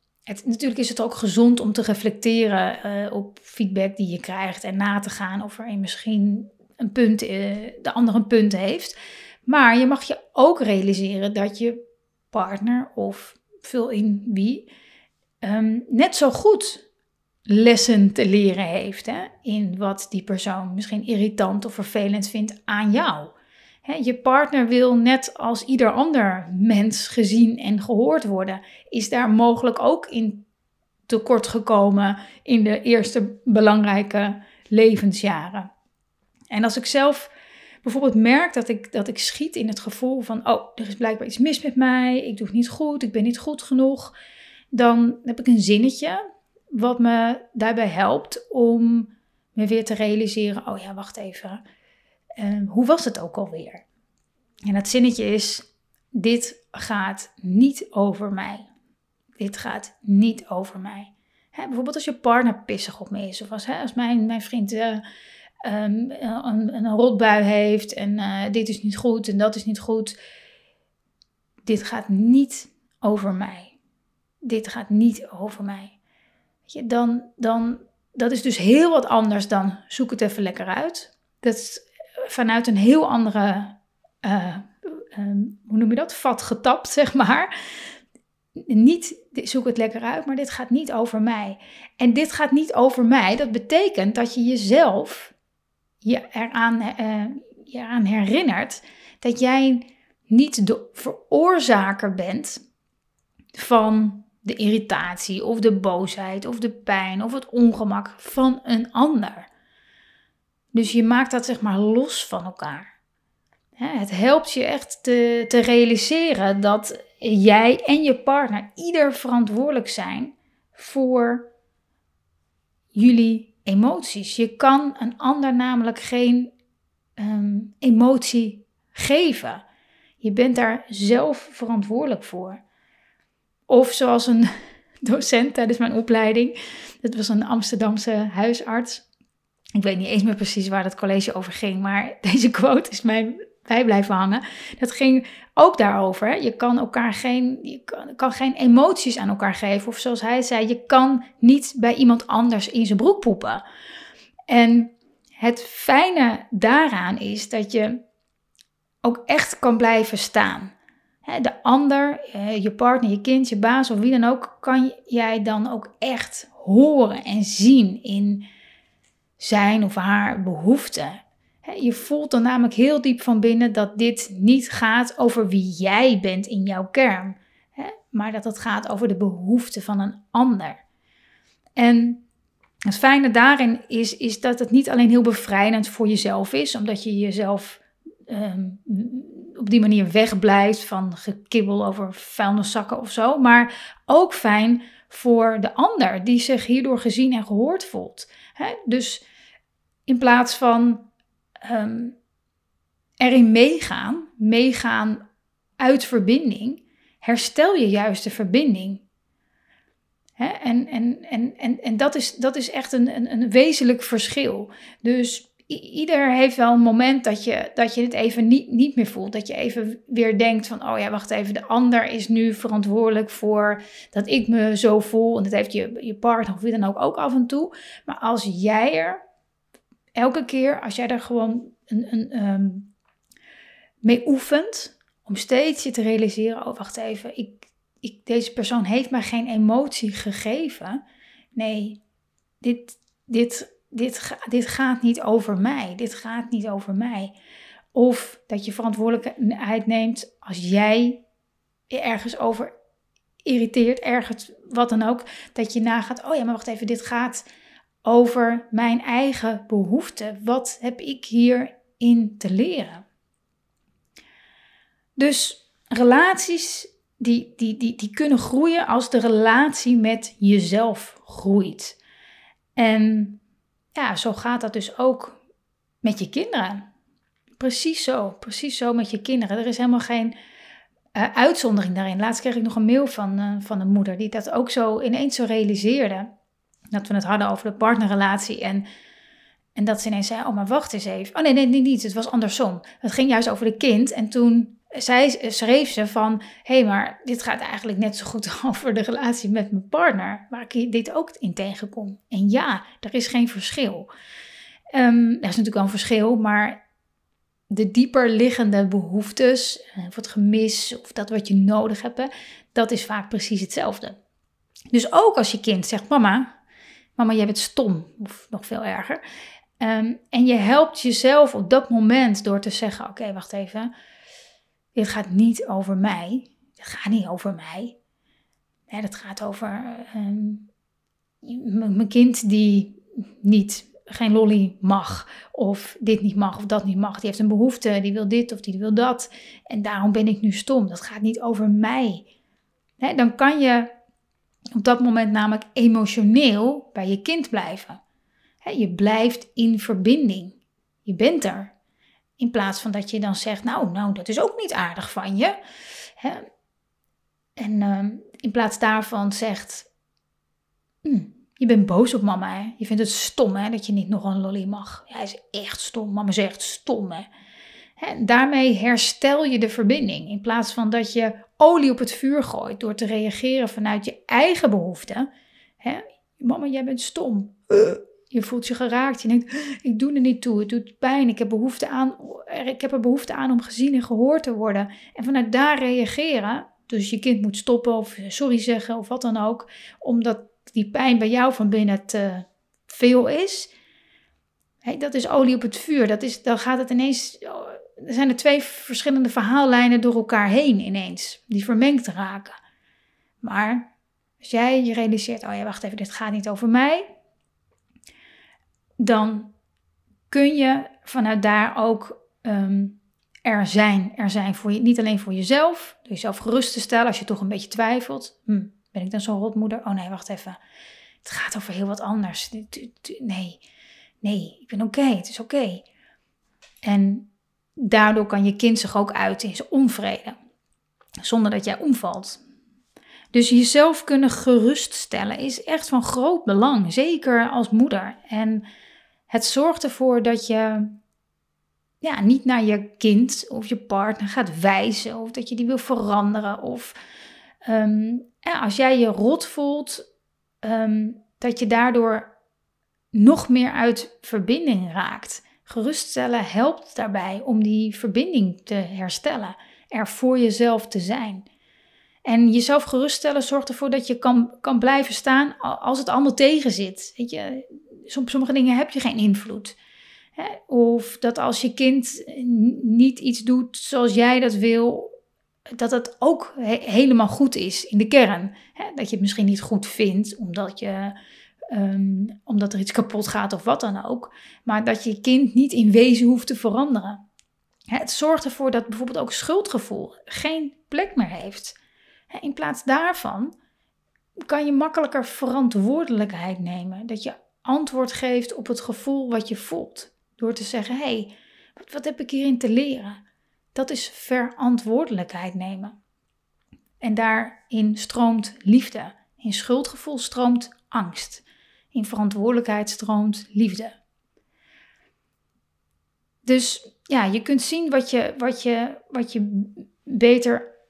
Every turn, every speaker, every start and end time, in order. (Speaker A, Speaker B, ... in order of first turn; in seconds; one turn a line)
Speaker A: 0.3-11.8
Speaker A: 12.3-14.7
Speaker A: 15.4-16.9
Speaker A: 17.5-30.5
Speaker A: 31.1-35.7
Speaker A: 36.5-37.3
Speaker A: 37.8-44.1
Speaker A: 44.7-51.6
Speaker A: 52.4-53.9
Speaker A: 54.7-58.7
Speaker A: 59.4-65.0
Speaker A: 65.6-70.2
Speaker A: 71.7-73.8
Speaker A: 74.4-76.0
Speaker A: 76.7-87.5
Speaker A: 88.6-95.3
Speaker A: 96.0-102.6
Speaker A: 103.5-109.5
Speaker A: 110.7-112.9
Speaker A: 113.8-121.5
Speaker A: 122.9-126.5
Speaker A: 127.2-129.6
Speaker A: 130.2-132.6
Speaker A: 133.7-134.5
Speaker A: 135.0-139.1
Speaker A: 139.8-153.6
Speaker A: 154.5-158.0
Speaker A: 159.0-160.7
Speaker A: 161.2-168.5
Speaker A: 169.4-180.8
Speaker A: 181.8-182.2
Speaker A: 182.9-199.2
Speaker A: 200.1-201.1
Speaker A: 201.6-202.2
Speaker A: 203.2-205.2
Speaker A: 205.8-209.0
Speaker A: 210.4-229.2
Speaker A: 230.2-232.9
Speaker A: 234.0-241.0
Speaker A: 241.6-242.0
Speaker A: 242.6-247.3
Speaker A: 247.9-251.2
Speaker A: 251.9-252.7
Speaker A: 253.4-257.4
Speaker A: 258.0-263.1
Speaker A: 265.2-272.0
Speaker A: 272.8-273.4
Speaker A: 273.9-275.4
Speaker A: 276.0-276.9
Speaker A: 277.6-280.3
Speaker A: 281.1-286.3
Speaker A: 286.9-288.9
Speaker A: 289.8-304.1
Speaker A: 304.9-306.8
Speaker A: 307.7-314.2
Speaker A: 314.9-316.5
Speaker A: 317.2-319.2
Speaker A: 319.8-323.9
Speaker A: 324.9-328.0
Speaker A: 328.9-330.7
Speaker A: 331.4-342.2
Speaker A: 343.0-343.9
Speaker A: 344.8-348.0
Speaker A: 348.6-351.7
Speaker A: 352.4-355.6
Speaker A: 356.2-356.5
Speaker A: 357.6-359.9
Speaker A: 361.0-367.3
Speaker A: 368.0-375.3
Speaker A: 375.8-393.7
Speaker A: 394.8-402.6
Speaker A: 403.4-403.9
Speaker A: 404.4-407.1
Speaker A: 409.0-409.5
Speaker A: 410.3-420.6
Speaker A: 421.2-423.6
Speaker A: 424.2-425.9
Speaker A: 426.8-430.4
Speaker A: 431.2-432.4
Speaker A: 433.3-438.6
Speaker A: 439.3-441.0
Speaker A: 442.0-446.9
Speaker A: 447.6-450.0
Speaker A: 450.6-452.3
Speaker A: 453.1-461.5
Speaker A: 462.2-469.8
Speaker A: 470.4-475.1
Speaker A: 475.7-481.1
Speaker A: 481.7-487.2
Speaker A: 487.9-491.8
Speaker A: 492.3-493.5
Speaker A: 494.5-503.2
Speaker A: 503.8-506.0
Speaker A: 507.0-514.0
Speaker A: 516.4-520.7